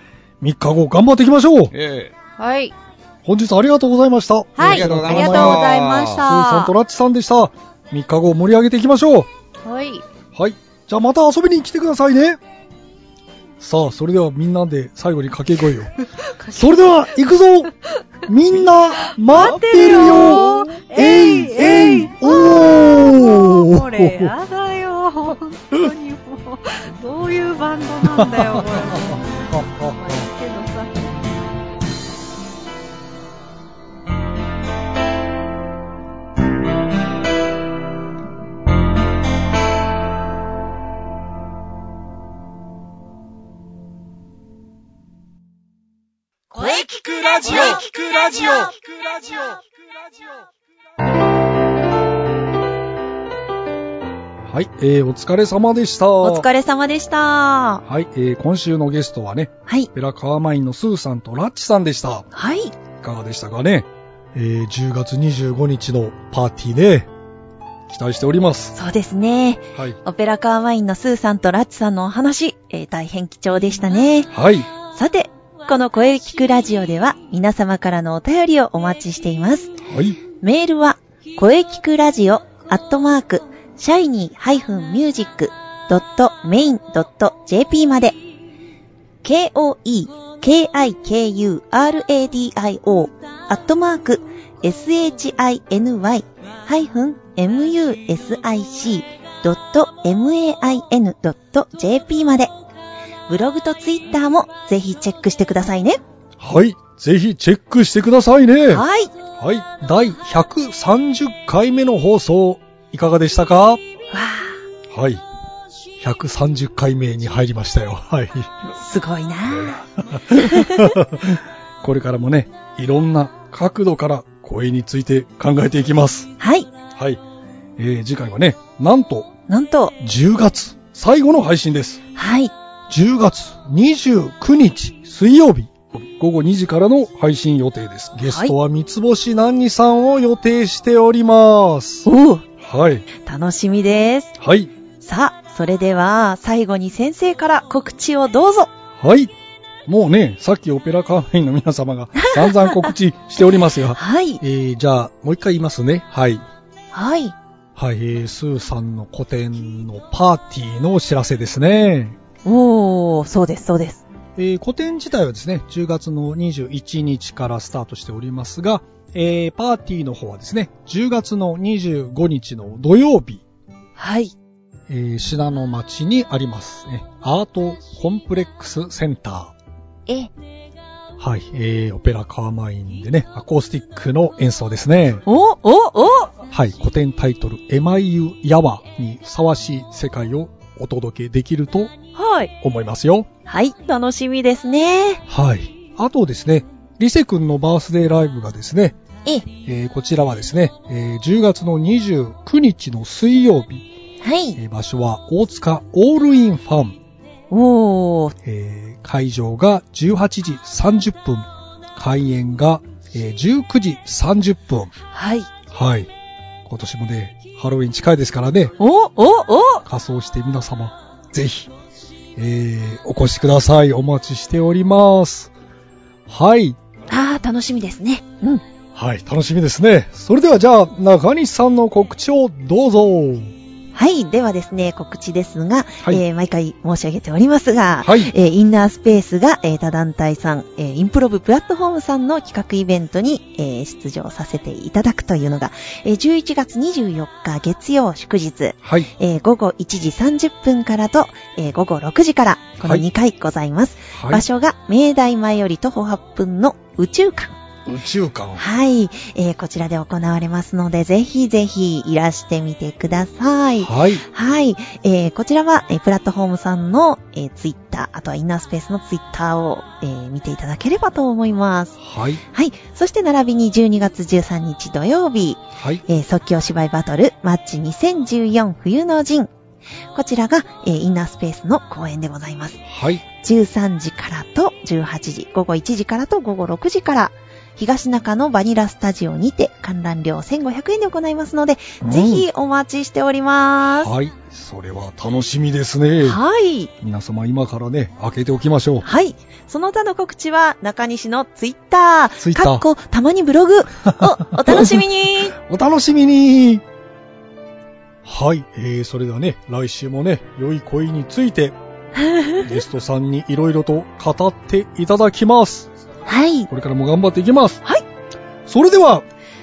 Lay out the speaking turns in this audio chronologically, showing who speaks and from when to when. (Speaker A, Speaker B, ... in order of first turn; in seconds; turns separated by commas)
Speaker A: 0.4-1.7, Speaker B: 1.7-2.1, Speaker C: 2.4-2.7, Speaker A: 3.2-9.3, Speaker C: 4.5-6.7, Speaker B: 4.6-6.2, Speaker C: 9.6-10.1, Speaker A: 10.3-12.4, Speaker A: 13.6-15.9, Speaker C: 16.0-16.9, Speaker A: 16.5-17.7, Speaker A: 18.2-24.3, Speaker C: 19.0-31.1, Speaker A: 28.0-30.3, Speaker D: 46.5-49.6, Speaker A: 54.5-56.5, Speaker E: 56.2-57.8, Speaker A: 57.8-62.3, Speaker E: 62.3-62.7, Speaker A: 63.0-67.1, Speaker A: 67.9-68.8, Speaker E: 68.7-74.3, Speaker A: 74.3-74.7, Speaker E: 74.8-79.8, Speaker A: 79.8-80.2, Speaker E: 80.4-88.2, Speaker E: 89.2-102.5, Speaker E: 103.3-106.0, Speaker A: 106.4-113.8, Speaker E: 108.7-109.1, Speaker E: 114.1-114.6, Speaker A: 114.9-115.2, Speaker A: 116.0-118.7, Speaker E: 118.7-121.0, Speaker A: 119.5-126.3, Speaker E: 126.4-126.7, Speaker A: 126.9-127.2, Speaker A: 127.8-129.3, Speaker E: 129.5-129.9, Speaker A: 130.0-132.0, Speaker E: 132.2-132.5, Speaker A: 132.9-142.1, Speaker E: 138.2-138.5, Speaker E: 142.1-142.5, Speaker A: 142.6-143.1, Speaker E: 143.2-144.4, Speaker A: 144.4-144.7, Speaker E: 145.0-148.7, Speaker A: 149.0-149.3, Speaker A: 149.8-156.4, Speaker E: 152.2-154.4, Speaker E: 156.9-157.3, Speaker A: 157.8-162.2, Speaker E: 162.4-164.0, Speaker A: 164.3-173.4, Speaker E: 174.0-174.3, Speaker A: 174.9-179.5, Speaker A: 181.2-185.2, Speaker E: 185.2-186.4, Speaker A: 186.5-191.9, Speaker E: 192.1-192.5, Speaker A: 192.6-193.3, Speaker E: 193.5-195.2, Speaker A: 195.3-198.9, Speaker A: 199.6-203.9, Speaker E: 204.2-204.6, Speaker A: 204.5-207.0, Speaker E: 207.5-208.3, Speaker A: 208.4-214.9, Speaker E: 215.1-215.5, Speaker A: 215.7-216.1, Speaker A: 216.6-218.8, Speaker E: 218.8-219.8, Speaker A: 219.8-221.7, Speaker A: 222.3-225.5, Speaker A: 226.3-226.8, Speaker E: 227.1-228.6, Speaker A: 228.9-233.5, Speaker E: 233.9-257.6, Speaker A: 238.0-238.3, Speaker A: 248.8-249.1, Speaker A: 254.1-254.4, Speaker A: 257.9-258.6, Speaker E: 258.5-272.0, Speaker A: 263.8-264.2, Speaker A: 272.0-272.4, Speaker E: 272.5-279.5, Speaker A: 275.8-276.0, Speaker E: 280.1-282.8, Speaker A: 282.9-283.2, Speaker E: 283.4-294.1, Speaker A: 292.0-292.5, Speaker A: 294.0-296.4, Speaker E: 296.2-296.9, Speaker A: 297.0-299.1, Speaker E: 299.0-305.5, Speaker A: 302.4-302.8, Speaker A: 304.1-306.8, Speaker A: 308.2-311.8, Speaker E: 312.1-312.8, Speaker A: 312.6-315.9, Speaker E: 316.2-316.7, Speaker A: 316.7-317.8, Speaker A: 318.6-319.2